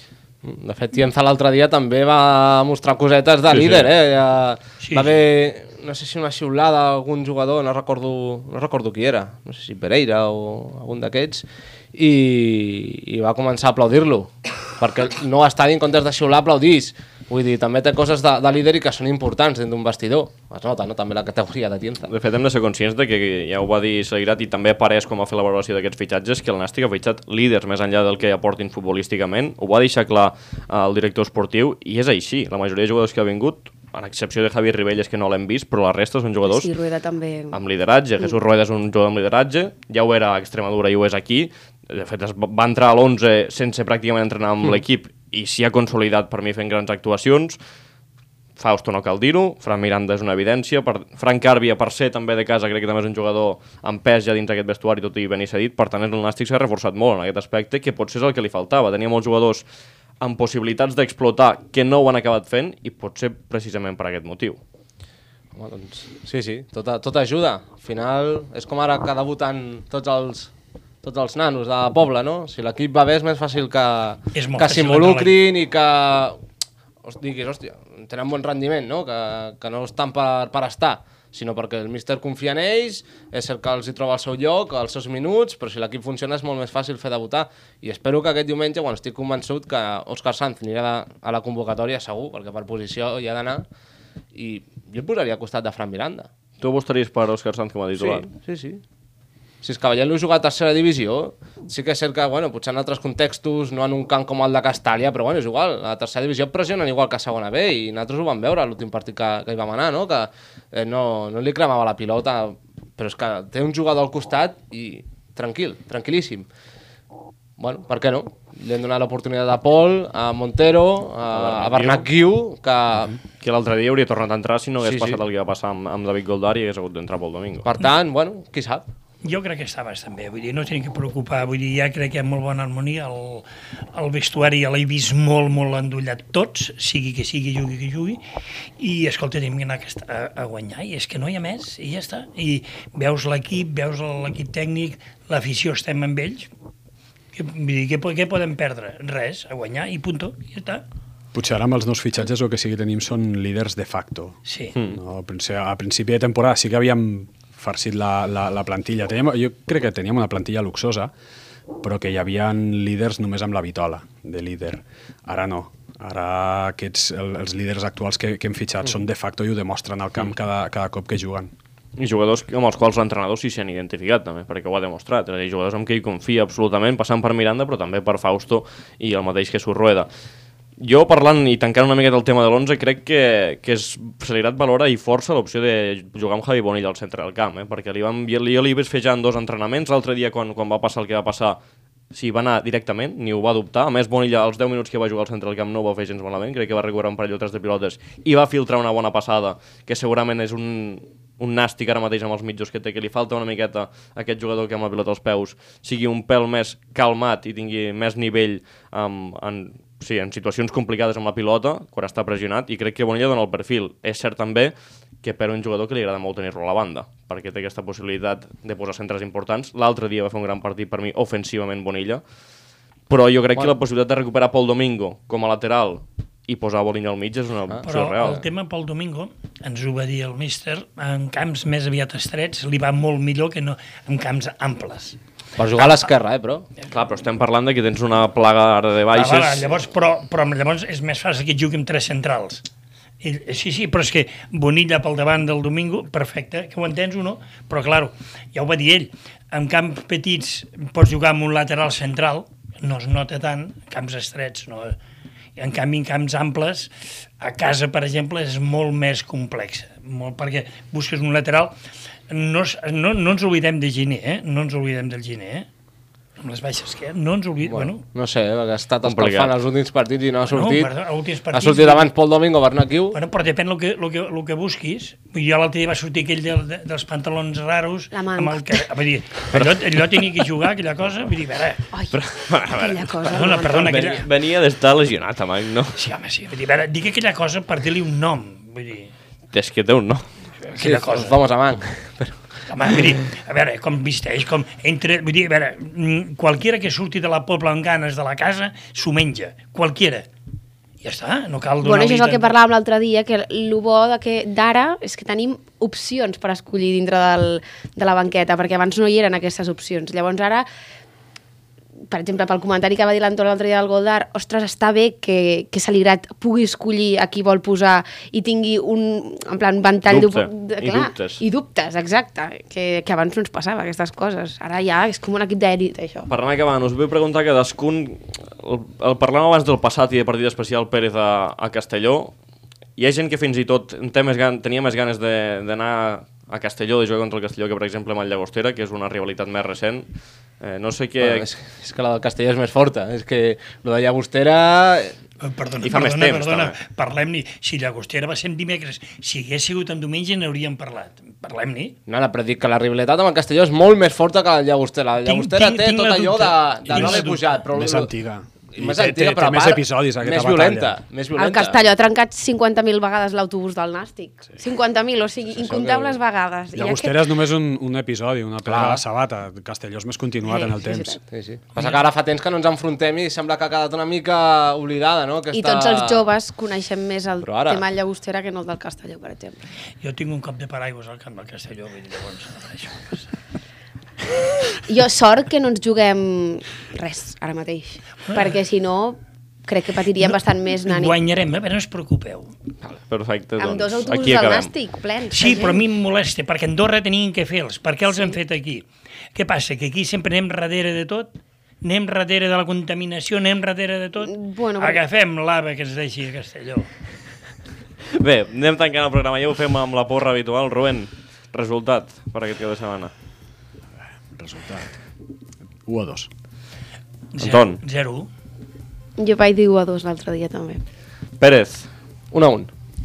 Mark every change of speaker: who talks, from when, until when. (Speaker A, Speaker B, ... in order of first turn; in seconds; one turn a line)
Speaker A: 0.4-22.1
Speaker B: 3.5-3.9
Speaker C: 4.8-5.2
Speaker B: 22.1-36.7
Speaker D: 36.4-37.6
Speaker B: 37.5-47.6
Speaker B: 48.6-59.6
Speaker B: 60.2-64.6
Speaker A: 65.5-76.4
Speaker C: 74.3-75.3
Speaker A: 77.0-93.6
Speaker A: 94.3-96.3
Speaker B: 96.6-98.3
Speaker A: 98.0-98.8
Speaker A: 99.6-116.5
Speaker A: 117.6-123.2
Speaker B: 121.3-122.1
Speaker B: 123.4-127.7
Speaker A: 124.8-125.2
Speaker A: 127.6-128.9
Speaker C: 129.2-138.2
Speaker C: 138.8-146.5
Speaker C: 147.3-150.8
Speaker E: 151.3-161.1
Speaker C: 154.4-154.7
Speaker E: 161.8-171.5
Speaker B: 172.0-180.1
Speaker B: 180.8-191.6
Speaker B: 192.1-222.2
Speaker B: 223.1-228.4
Speaker C: 227.8-235.2
Speaker A: 235.6-236.7
Speaker B: 236.9-239.8
Speaker C: 239.1-242.6
Speaker C: 243.2-254.9
Speaker C: 255.6-261.7
Speaker C: 262.3-265.7
Speaker C: 266.4-268.0
Speaker A: 267.6-270.9
Speaker B: 269.0-269.5
Speaker C: 270.5-272.1
Speaker A: 271.5-273.2
Speaker C: 273.1-281.9
Speaker D: 278.1-278.9
Speaker D: 281.9-284.2
Speaker B: 282.1-286.0
Speaker C: 283.3-284.2
Speaker C: 285.9-289.1
Speaker B: 289.5-290.3
Speaker C: 290.6-291.3
Speaker A: 290.8-292.9
Speaker C: 292.7-300.3
Speaker C: 301.0-302.5
Speaker D: 301.8-310.6
Speaker D: 312.1-326.3
Speaker B: 320.1-321.4
Speaker B: 326.3-332.3
Speaker B: 333.0-340.1
Speaker B: 340.6-341.5
Speaker A: 341.2-345.2
Speaker C: 345.4-352.0
Speaker B: 345.8-346.8
Speaker A: 352.1-358.1
Speaker C: 355.2-357.5
Speaker E: 356.9-360.9
Speaker A: 358.7-361.8
Speaker D: 361.4-367.2
Speaker A: 365.6-366.2
Speaker E: 366.7-371.2
Speaker A: 368.6-369.0
Speaker D: 370.4-371.2
Speaker A: 371.3-376.2
Speaker D: 375.5-379.6
Speaker A: 377.4-377.8
Speaker C: 380.0-383.3
Speaker D: 384.8-391.1
Speaker C: 388.2-388.5
Speaker C: 390.2-392.5
Speaker B: 392.9-394.7
Speaker D: 393.6-395.8
Speaker C: 395.3-401.3
Speaker C: 401.8-406.9
Speaker D: 404.2-405.0
Speaker B: 408.1-413.1
Speaker E: 414.3-415.0
Speaker E: 415.9-416.3
Speaker C: 417.3-418.3
Speaker B: 417.4-417.8
Speaker D: 419.2-420.8
Speaker B: 421.4-421.9
Speaker A: 422.3-422.7